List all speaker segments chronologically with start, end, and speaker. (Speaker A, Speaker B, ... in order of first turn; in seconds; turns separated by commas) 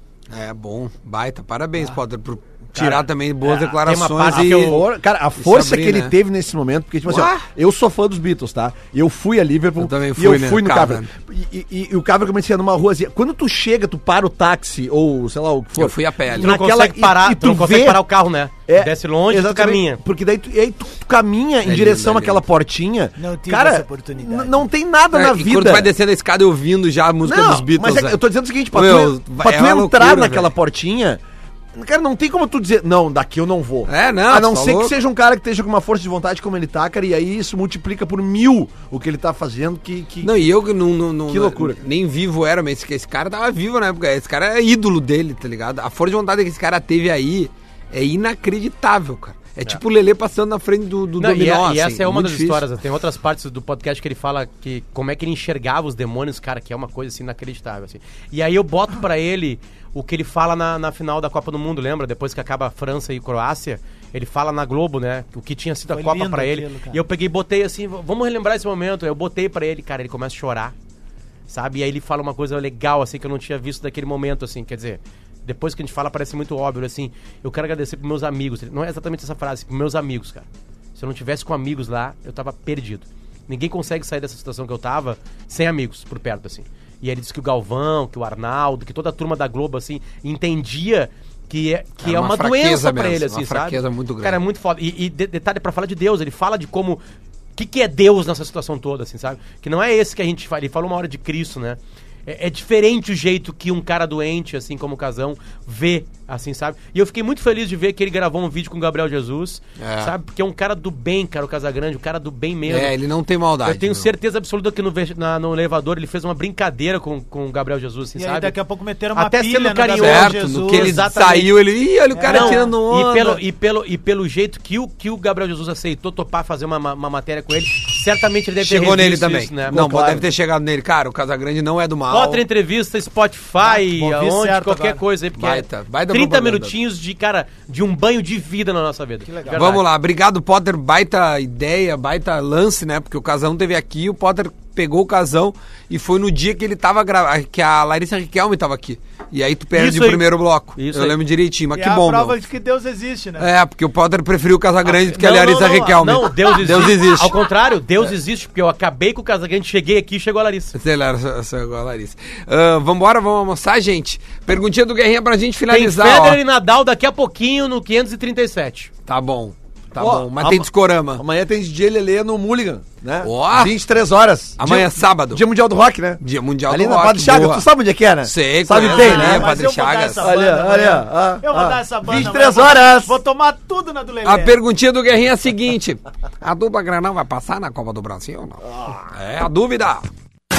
Speaker A: 0.3-4.8, Speaker B: 2.7-4.8, Speaker C: 4.2-18.0, Speaker A: 5.4-6.1, Speaker A: 7.0-7.4, Speaker A: 9.8-11.1, Speaker A: 15.7-16.5, Speaker B: 16.4-20.0, Speaker C: 18.7-25.9, Speaker A: 21.6-22.4, Speaker D: 23.2-24.6, Speaker A: 25.1-30.5, Speaker C: 27.2-31.2, Speaker C: 31.7-40.5, Speaker A: 33.9-34.9, Speaker A: 40.2-52.6, Speaker C: 41.3-41.8, Speaker B: 51.2-70.7, Speaker D: 65.9-67.0, Speaker B: 71.5-97.0, Speaker A: 92.0-94.4, Speaker B: 97.6-112.9, Speaker A: 109.8-110.1, Speaker A: 112.7-114.1, Speaker B: 113.6-118.5, Speaker D: 118.2-121.4, Speaker B: 119.1-121.5, Speaker A: 119.9-123.4, Speaker D: 122.1-122.7, Speaker B: 122.3-130.0, Speaker A: 128.6-132.4, Speaker C: 129.7-130.2, Speaker B: 132.1-139.8, Speaker D: 133.6-135.0, Speaker A: 135.4-136.7, Speaker D: 139.2-139.8, Speaker A: 139.5-152.4, Speaker B: 149.7-151.2, Speaker D: 151.7-153.5, Speaker A: 153.4-157.3, Speaker B: 154.8-160.8, Speaker D: 155.4-157.5, Speaker A: 160.7-166.4, Speaker B: 165.7-168.9, Speaker A: 169.1-171.2, Speaker C: 170.0-179.5, Speaker A: 173.2-173.7, Speaker A: 174.6-175.4, Speaker A: 176.2-177.6, Speaker A: 178.2-180.3, Speaker D: 178.7-184.6, Speaker C: 180.2-183.2, Speaker A: 184.2-190.1, Speaker C: 188.6-189.1